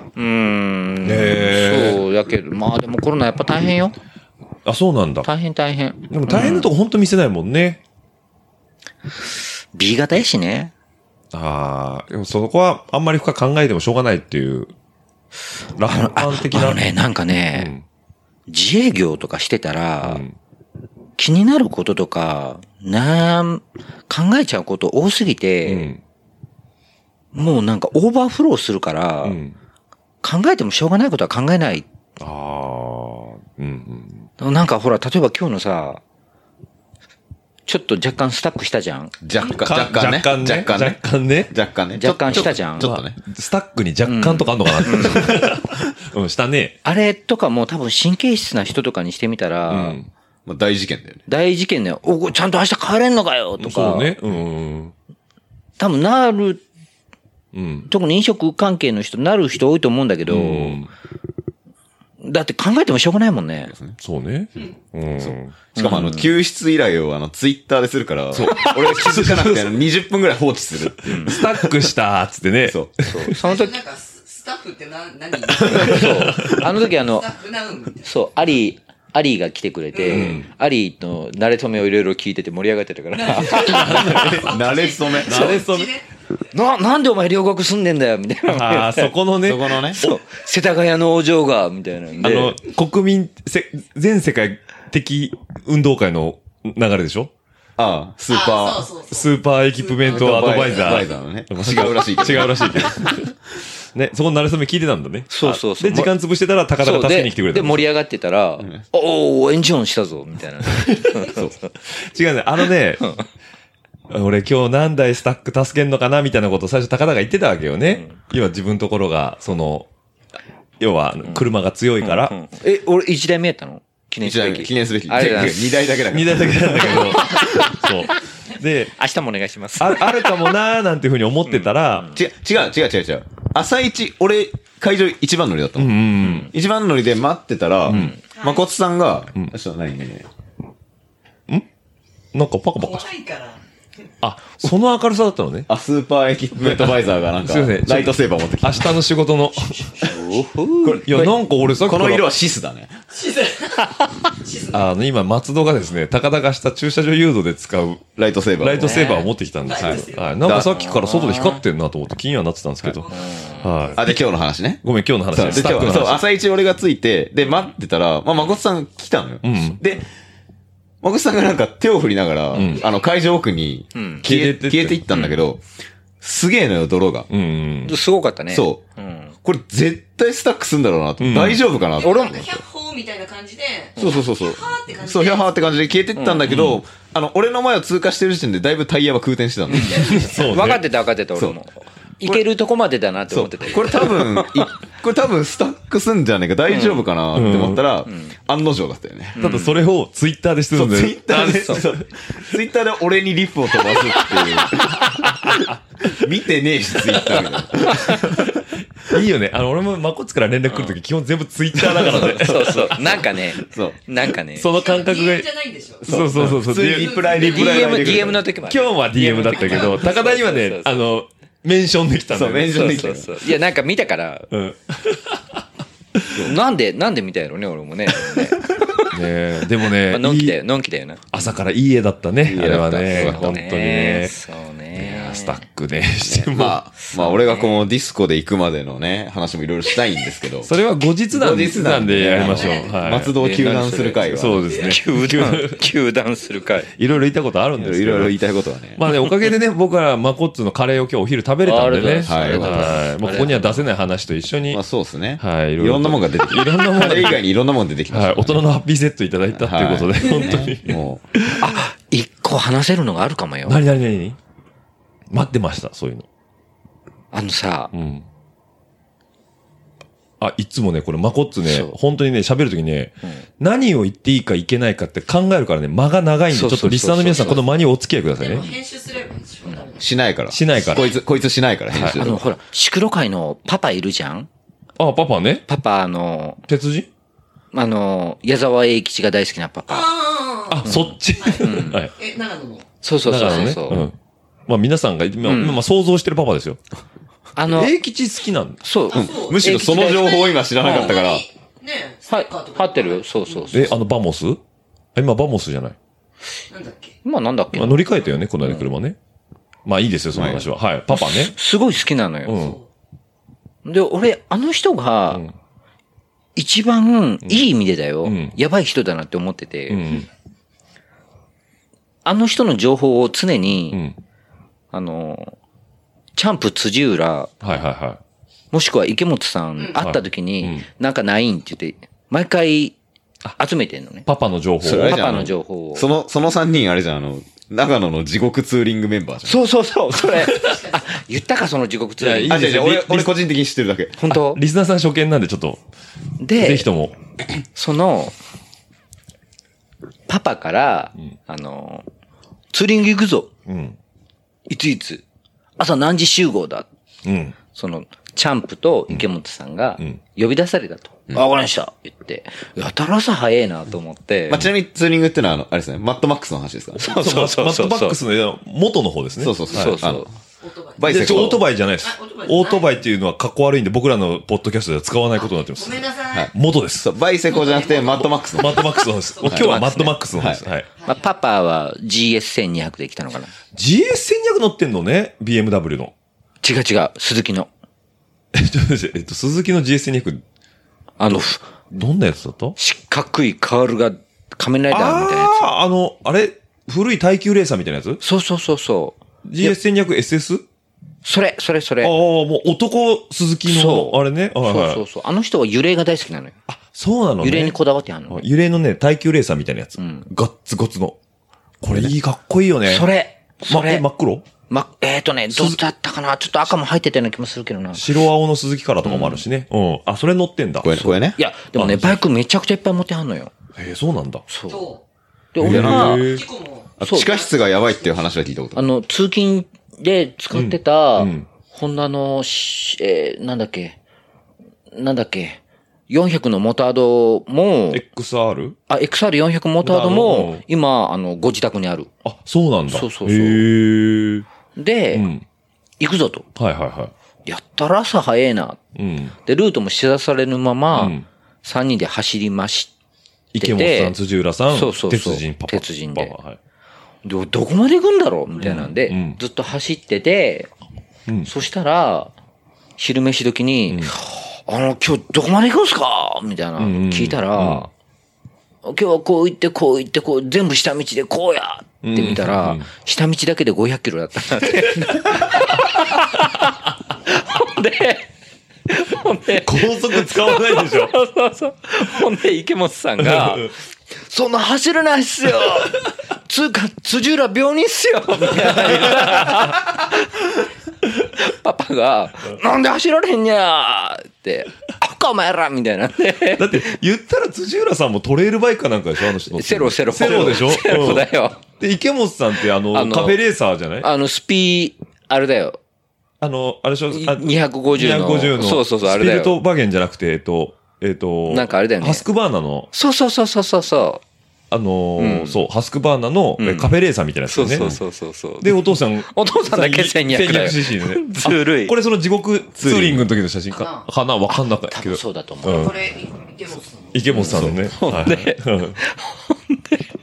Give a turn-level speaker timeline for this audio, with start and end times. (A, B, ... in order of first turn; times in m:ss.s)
0:00.2-0:04.0 A
0:01.0-0:02.0 B
0:04.7-0:05.3 B
0:05.2-0:06.7 A
0:06.1-0:07.8 B
0:09.7-0:10.7 A
0:11.3-0:14.7 B
0:15.8-0:16.9 B
0:15.9-0:17.7 A
0:17.5-0:17.8 B
0:18.5-0:20.2 A
0:20.0-0:20.4 B
0:21.2-0:25.9 A
0:25.6-0:26.0 B
0:27.3-0:29.4 A
0:29.2-0:29.6 B
0:30.2-0:31.8 A
0:32.2-0:34.3 B
0:34.4-0:36.0 A
0:37.7-0:39.1 A
0:39.2-0:43.2 C
0:39.5-0:41.5 B
0:42.0-0:42.9 A
0:42.3-0:46.8 B
0:44.0-0:45.4 A
0:46.8-0:50.0 A
0:49.7-0:50.1 B
0:50.5-0:51.2 C
0:51.3-0:54.1 A
0:53.6-0:54.9 B
0:55.8-0:56.6 A
0:57.5-0:57.9 B
0:57.9-1:00.8 A
1:00.3-1:00.9 B
1:02.2-1:03.7 A
1:03.7-1:04.0 C
1:04.0-1:05.6 B
1:05.2-1:11.8 C
1:05.8-1:06.3 A
1:08.3-1:09.8 B
1:11.1-1:11.4 A
1:11.1-1:13.4 B
1:12.6-1:12.9 C
1:13.0-1:13.8 A
1:13.4-1:18.1 D
1:15.6-1:16.6 B
1:15.6-1:17.3 A
1:18.0-1:24.2 A
1:20.0-1:20.3 D
1:20.1-1:20.5 B
1:23.2-1:26.0 D
1:23.5-1:25.6 C
1:23.6-1:24.5 B
1:25.2-1:26.0 B
1:26.5-1:29.1 A
1:28.5-1:30.1 B
1:29.4-1:30.0 C
1:30.0-1:32.6 A
1:32.2-1:37.3 B
1:37.8-1:38.9 C
1:38.3-1:39.3 D
1:39.1-1:43.3 B
1:39.8-1:41.0 D
1:40.1-1:43.1 C
1:43.9-1:47.9 B
1:45.3-1:46.1 A
1:46.8-1:51.5 A
1:50.7-1:51.5 B
1:52.0-1:53.2 B
1:54.1-1:59.9 B
2:00.8-2:02.4 B
2:02.0-2:05.8 A
2:04.2-2:07.4 C
2:05.2-2:05.6 B
2:06.1-2:09.0 B
2:06.9-2:07.8 A
2:09.0-2:10.5 A
2:09.8-2:12.1 B
2:11.5-2:12.2 A
2:12.1-2:20.3 C
2:15.8-2:16.5 B
2:16.2-2:16.5 A
2:17.9-2:18.2 B
2:17.9-2:18.2 A
2:22.3-2:23.1 B
2:22.8-2:23.6 D
2:24.2-2:25.7 B
2:25.7-2:29.0 C
2:26.6-2:29.9 B
2:30.0-2:31.3 A
2:30.8-2:33.0 C
2:31.0-2:32.3 B
2:33.2-2:34.8 D
2:34.7-2:43.1 B
2:38.2-2:39.0 C
2:38.8-2:39.3 A
2:39.7-2:40.3 D
2:40.4-2:40.8 C
2:40.7-2:41.6 A
2:43.0-2:43.7 D
2:43.1-2:43.7 A
2:43.6-2:44.2 B
2:44.0-2:50.0 C
2:44.8-2:46.2 B
2:49.4-2:49.8 B
2:51.0-2:55.6 C
2:52.5-2:52.8 B
2:54.0-2:54.2 A
2:54.2-2:55.1 B
2:56.2-2:57.3 C
2:57.3-2:58.0 B
2:57.8-2:59.4 A
2:58.5-2:58.8 C
2:59.4-3:02.6 C
3:01.2-3:01.6 B
3:02.0-3:05.8 D
3:04.0-3:10.4 C
3:06.2-3:06.4 A
3:06.5-3:06.8 B
3:09.7-3:14.7 A
3:10.0-3:10.8 B
3:13.3-3:19.4 C
3:16.7-3:17.0 A
3:17.3-3:17.8 B
3:18.1-3:18.3 A
3:19.4-3:19.8 A
3:19.4-3:22.0 B
3:20.7-3:25.5 C
3:21.3-3:21.8 A
3:26.1-3:28.5 C
3:29.0-3:33.2 B
3:31.9-3:34.0 C
3:32.0-3:34.7 A
3:34.6-3:35.5 B
3:34.8-3:36.2 D
3:36.0-3:38.5 C
3:36.1-3:37.3 B
3:36.9-3:37.8 D
3:37.4-3:41.0 A
3:38.7-3:43.1 B
3:42.3-3:43.3 C
3:42.7-3:44.5 A
3:44.5-3:45.4 B
3:46.4-3:49.1 A
3:49.0-3:50.6 B
3:50.1-3:51.6 A
3:51.3-3:54.4 B
3:52.5-3:53.6 C
3:53.0-3:55.6 A
3:55.0-3:56.8 B
3:56.2-4:00.7 C
3:57.1-3:57.8 A
4:00.6-4:03.3 B
4:01.3-4:04.8 C
4:02.6-4:02.9 D
4:03.4-4:06.9 A
4:04.3-4:05.8 B
4:07.0-4:08.4 B
4:07.8-4:09.0 C
4:09.0-4:14.8 B
4:11.6-4:13.8 A
4:12.2-4:13.0 C
4:14.7-4:18.6 C
4:15.4-4:17.4 B
4:18.1-4:21.8 B
4:19.6-4:21.2 C
4:21.6-4:23.8 A
4:23.7-4:24.4 B
4:25.3-4:26.2 B
4:27.3-4:27.9 A
4:27.9-4:28.2 B
4:30.4-4:38.7 B
4:31.6-4:32.0 A
4:36.5-4:37.6 A
4:38.4-4:40.1 D
4:40.0-4:42.4 C
4:40.5-4:41.1 B
4:40.9-4:41.2 D
4:41.9-4:42.2 B
4:42.2-4:44.5 A
4:45.0-4:45.7 B
4:45.7-4:46.6 A
4:46.7-4:47.1 B
4:47.7-4:50.1 A
4:49.9-4:52.9 D
4:50.7-4:52.1 B
4:50.8-4:52.0 A
4:53.0-4:54.1 A
4:53.3-4:54.2 B
4:54.7-4:56.8 B
4:55.4-4:55.8 A
4:57.6-4:57.9 A
4:57.7-4:58.8 B
4:58.8-5:01.1 A
4:59.1-5:03.7 D
4:59.1-5:01.4 C
5:02.3-5:04.0 A
5:03.7-5:04.6 B
5:05.2-5:06.0 B
5:06.7-5:07.2 D
5:07.2-5:08.1 A
5:07.7-5:09.2 B
5:09.9-5:11.5 B
5:10.3-5:10.7 C
5:11.1-5:12.6 A
5:12.5-5:12.8 B
5:12.5-5:12.8 D
5:13.8-5:15.4 A
5:16.6-5:20.2 A
5:18.2-5:18.6 B
5:19.9-5:20.3 B
5:22.2-5:24.0 A
5:24.9-5:25.6 A
5:26.4-5:27.5 A
5:27.6-5:28.2 B
5:28.7-5:33.0 A
5:30.0-5:30.8 B
5:33.6-5:34.3 A
5:34.3-5:35.5 B
5:34.8-5:39.6 C
5:35.0-5:36.1 A
5:39.4-5:42.6 A
5:40.6-5:41.0 D
5:42.2-5:43.4 B
5:42.5-5:44.2 C
5:44.2-5:44.6 A
5:44.3-5:45.8 B
5:46.4-5:46.9 A
5:46.6-5:47.2 B
5:47.8-5:48.4 A
5:50.3-5:52.0 A
5:52.7-5:53.5 A
5:53.7-5:54.0 B
5:54.7-5:55.2 A
5:55.8-5:56.9 A
5:57.2-5:57.6 B
5:57.7-6:04.7 A
6:04.5-6:07.0 C
6:07.0-6:08.2 A
6:07.1-6:10.0 B
6:09.4-6:10.3 C
6:09.7-6:10.3 A
6:10.6-6:12.9 D
6:11.0-6:11.6 C
6:11.0-6:17.1 B
6:15.4-6:16.5 D
6:16.3-6:18.8 C
6:17.5-6:19.8 D
6:18.6-6:20.9 B
6:19.4-6:19.7 C
6:19.5-6:20.1 A
6:20.3-6:20.7 C
6:21.0-6:21.3 D
6:21.0-6:23.5 A
6:23.7-6:26.1 B
6:26.6-6:27.7 A
6:28.5-6:30.4 B
6:31.2-6:31.7 A
6:31.9-6:32.8 B
6:32.8-6:35.7 A
6:34.9-6:38.2 B
6:38.2-6:39.8 A
6:39.4-6:40.6 B
6:41.2-6:42.1 A
6:42.0-6:45.0 B
6:43.7-6:46.6 A
6:46.7-6:47.8 B
6:47.4-6:48.4 A
6:48.3-6:51.2 B
6:50.0-6:50.3 A
6:51.8-6:53.1 B
6:52.9-6:54.0 A
6:53.7-6:54.4 B
6:54.7-6:58.1 A
6:55.5-6:55.8 B
6:57.9-7:01.1 B
6:59.0-6:59.4 A
7:00.8-7:01.4 C
7:01.4-7:03.5 A
7:01.8-7:02.2 B
7:03.8-7:04.5 B
7:04.5-7:04.9 A
7:04.7-7:05.0 D
7:05.5-7:06.3 A
7:05.6-7:06.3 C
7:05.6-7:06.4 B
7:06.2-7:07.5 D
7:07.0-7:08.9 C
7:07.1-7:07.4 A
7:08.8-7:14.0 A
7:10.5-7:11.5 B
7:14.9-7:18.0 A
7:17.9-7:18.8 B
7:18.9-7:22.1 A
7:19.8-7:20.6 B
7:22.2-7:24.5 B
7:22.9-7:23.7 A
7:24.8-7:25.3 A
7:25.1-7:25.4 B
7:26.0-7:26.5 A
7:26.6-7:27.1 B
7:27.5-7:28.8 A
7:29.0-7:29.4 B
7:29.4-7:32.9 A
7:30.9-7:31.3 B
7:33.5-7:36.6 B
7:33.6-7:34.1 A
7:34.7-7:36.4 A
7:37.2-7:40.7 A
7:38.6-7:39.4 B
7:41.4-7:42.3 A
7:43.0-7:47.9 A
7:46.8-7:47.9 B
7:48.8-7:58.3 A
7:52.0-7:52.9 B
7:55.0-7:55.6 B
7:58.9-8:10.5 A
7:59.6-8:01.1 B
8:03.2-8:03.6 B
8:08.5-8:09.7 B
8:11.2-8:16.9 A
8:16.6-8:21.3 B
8:19.4-8:21.6 A
8:21.8-8:24.1 B
8:22.9-8:23.4 A
8:24.0-8:25.8 A
8:26.4-8:32.9 B
8:27.1-8:29.6 A
8:31.5-8:32.2 A
8:32.9-8:34.2 A
8:34.7-8:38.0 B
8:35.2-8:35.6 A
8:36.6-8:37.0 A
8:37.5-8:42.0 A
8:38.6-8:46.0 B
8:42.8-8:43.2 C
8:43.7-8:44.0 D
8:44.9-8:45.9 A
8:45.6-8:47.2 D
8:47.1-8:49.0 B
8:47.3-8:50.0 A